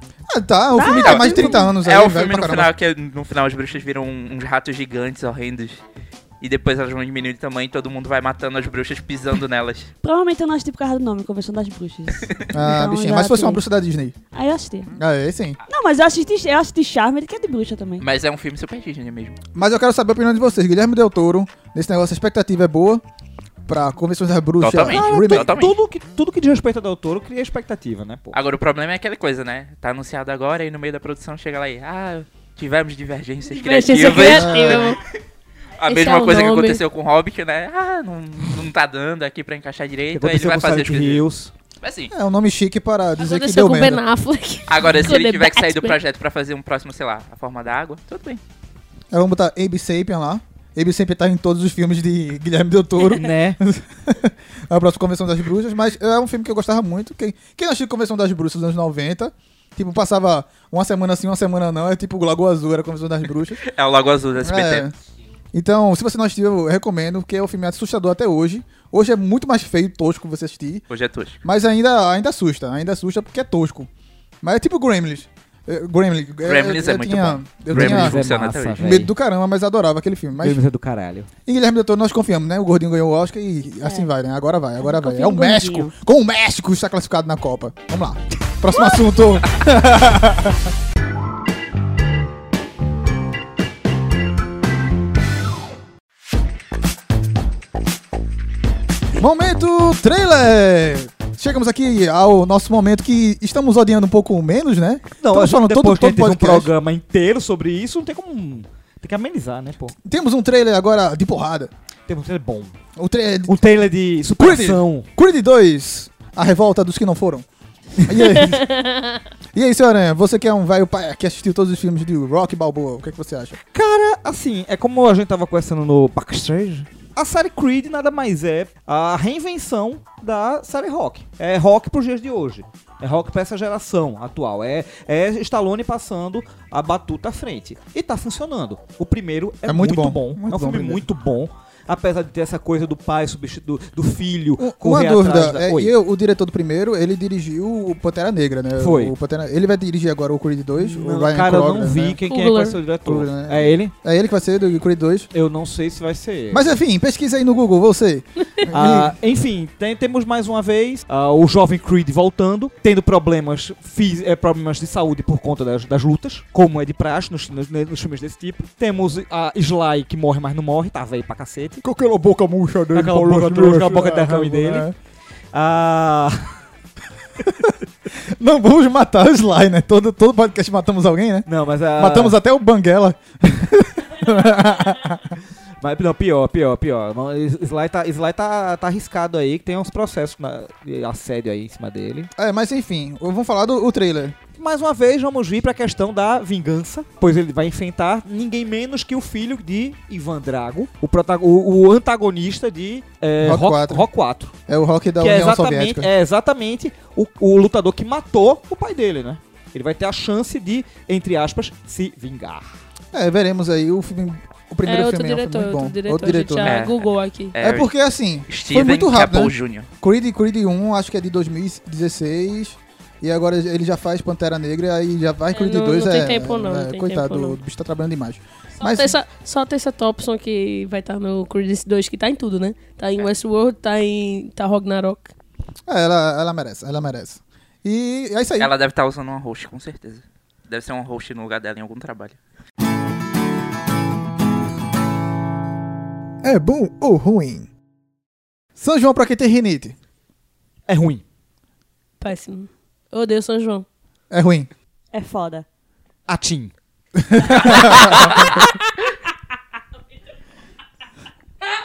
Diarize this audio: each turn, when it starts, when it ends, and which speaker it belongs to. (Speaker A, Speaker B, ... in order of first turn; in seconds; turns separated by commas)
Speaker A: 0.3-2.7, Speaker B: 0.7-1.7, Speaker C: 0.9-5.8, Speaker C: 6.4-9.9, Speaker B: 10.0-13.6, Speaker A: 12.5-14.1, Speaker B: 14.3-14.9, Speaker A: 14.9-15.6, Speaker B: 15.7-18.0, Speaker C: 18.0-19.4, Speaker A: 19.5-23.0, Speaker A: 23.7-25.5, Speaker C: 24.6-25.8, Speaker D: 24.8-28.4, Speaker C: 28.3-34.9, Speaker E: 33.5-35.0, Speaker A: 34.2-34.9, Speaker C: 35.8-41.2, Speaker E: 35.9-36.8, Speaker D: 40.1-41.5, Speaker C: 41.8-42.1, Speaker A: 42.1-44.0, Speaker E: 43.2-46.0, Speaker C: 44.7-48.4, Speaker A: 49.1-63.6, Speaker D: 53.1-53.6, Speaker C: 63.6-64.8, Speaker A: 64.4-64.9, Speaker A: 65.5-70.8, Speaker C: 70.9-71.4, Speaker A: 71.4-73.9, Speaker A: 74.4-78.2, Speaker C: 76.4-79.0, Speaker D: 77.7-79.1, Speaker A: 78.8-80.6, Speaker D: 80.4-81.3, Speaker A: 81.5-90.7, Speaker B: 84.8-85.9, Speaker A: 99.2-106.7, Speaker D: 105.2-109.9, Speaker A: 110.0-111.7, Speaker D: 112.1-112.7, Speaker A: 113.0-113.6, Speaker D: 113.5-115.0, Speaker A: 114.4-117.5, Speaker D: 118.0-118.3, Speaker A: 118.0-118.6, Speaker E: 118.5-119.2, Speaker A: 119.5-123.6, Speaker D: 123.7-145.9, Speaker A: 139.6-141.0, Speaker A: 144.6-152.2, Speaker D: 148.8-149.1, Speaker D: 150.8-153.9, Speaker E: 152.3-152.8, Speaker A: 153.0-155.3, Speaker D: 155.3-156.6, Speaker A: 156.5-159.1, Speaker D: 158.7-171.8, Speaker A: 171.8-174.9, Speaker D: 172.9-174.9, Speaker D: 175.5-176.6, Speaker A: 177.4-185.4, Speaker D: 181.4-182.4, Speaker D: 185.8-192.3, Speaker A: 192.4-194.4, Speaker D: 194.6-204.5, Speaker A: 203.4-204.1, Speaker A: 204.7-206.1, Speaker D: 205.2-212.7, Speaker A: 213.1-216.8, Speaker E: 214.8-217.6, Speaker C: 216.6-217.0, Speaker C: 217.5-217.9, Speaker A: 217.6-229.1, Speaker C: 218.5-219.9, Speaker E: 225.5-227.6, Speaker E: 228.8-235.3, Speaker A: 235.9-238.7, Speaker C: 238.6-242.4, Speaker A: 246.4-247.7, Speaker A: 248.8-249.9, Speaker D: 250.9-251.2, Speaker E: 252.2-253.8, Speaker A: 254.3-254.7, Speaker B: 255.1-255.7, Speaker D: 256.3-256.7, Speaker A: 257.2-258.4